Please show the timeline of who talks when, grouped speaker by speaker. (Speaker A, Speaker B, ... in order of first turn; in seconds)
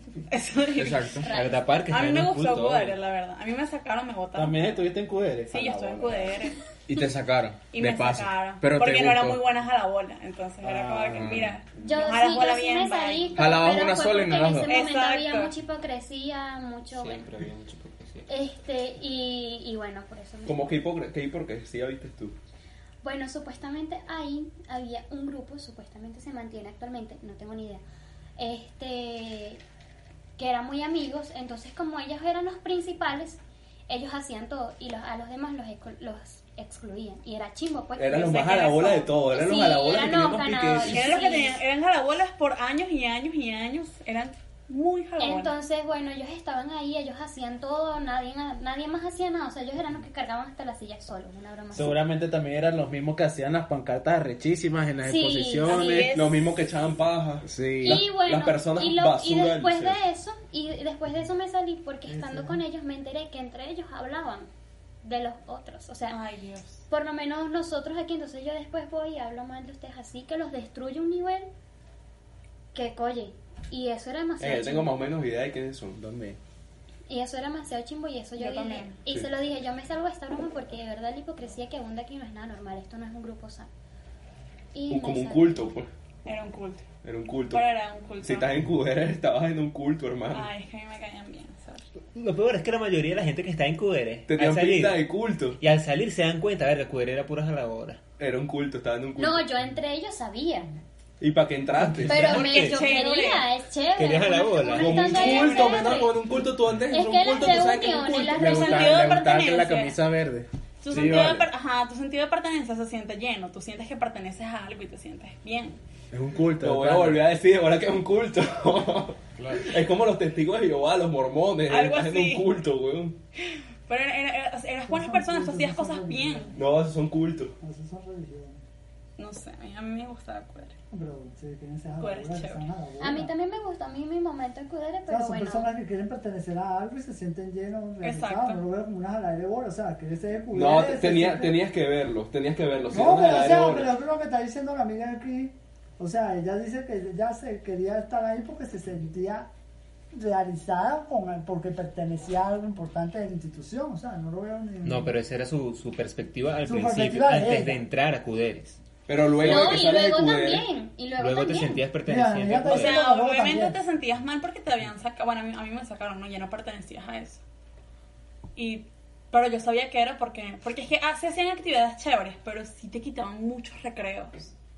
Speaker A: 0.3-1.2, 1.9-4.8, 5.5-6.6, 7.7-13.4, 14.7-15.5, 40.8-45.5, 55.6-56.5, 66.1-66.8, 78.4-79.0, 86.2-86.8, 87.5-88.5, 90.3-91.8, 102.3-103.5, 105.0-106.1, 108.2-110.0, 110.8-115.8, 121.7-122.5, 123.5-126.5, 129.2-130.8, 132.0-132.6, 138.0-138.6, 162.7-167.4, 168.6-174.5
Speaker B: 0.7-1.3, 6.9-9.4, 11.1-11.6, 13.3-14.8, 110.9-111.5, 119.4-119.7
Speaker C: 1.2-1.7, 11.8-17.3, 18.3-20.7, 23.0-27.8, 28.4-29.6, 30.4-41.6, 45.2-52.0, 55.0-56.0, 57.8-64.5, 65.0-66.2, 66.9-71.5, 72.7-75.0, 77.1-83.7, 84.7-85.8, 99.2-100.7, 102.0-106.1, 106.9-108.9, 133.0-135.7, 159.3-161.9
Speaker D: 1.3-3.0, 16.9-18.3, 92.1-98.0, 101.8-103.0, 103.9-105.5, 154.8-158.8, 161.2-163.1
Speaker E: 4.3-6.4, 10.6-11.5, 51.7-56.1, 57.4-58.0, 75.9-76.4, 108.4-110.5, 116.1-117.3
Speaker F: 20.4-22.4, 38.0-41.2, 56.0-60.0, 74.4-76.0, 84.9-85.9, 87.0-87.6, 88.2-90.5, 94.3-95.6, 98.2-99.5, 101.2-102.4, 104.7-108.5, 116.6-123.2, 126.5-127.5, 140.5-143.9, 159.1-160.7
Speaker G: 62.1-62.6, 124.9-126.6, 127.6-128.6, 130.9-133.3, 135.1-141.6, 142.9-149.5, 150.1-155.1, 156.6-157.8, 162.1-163.8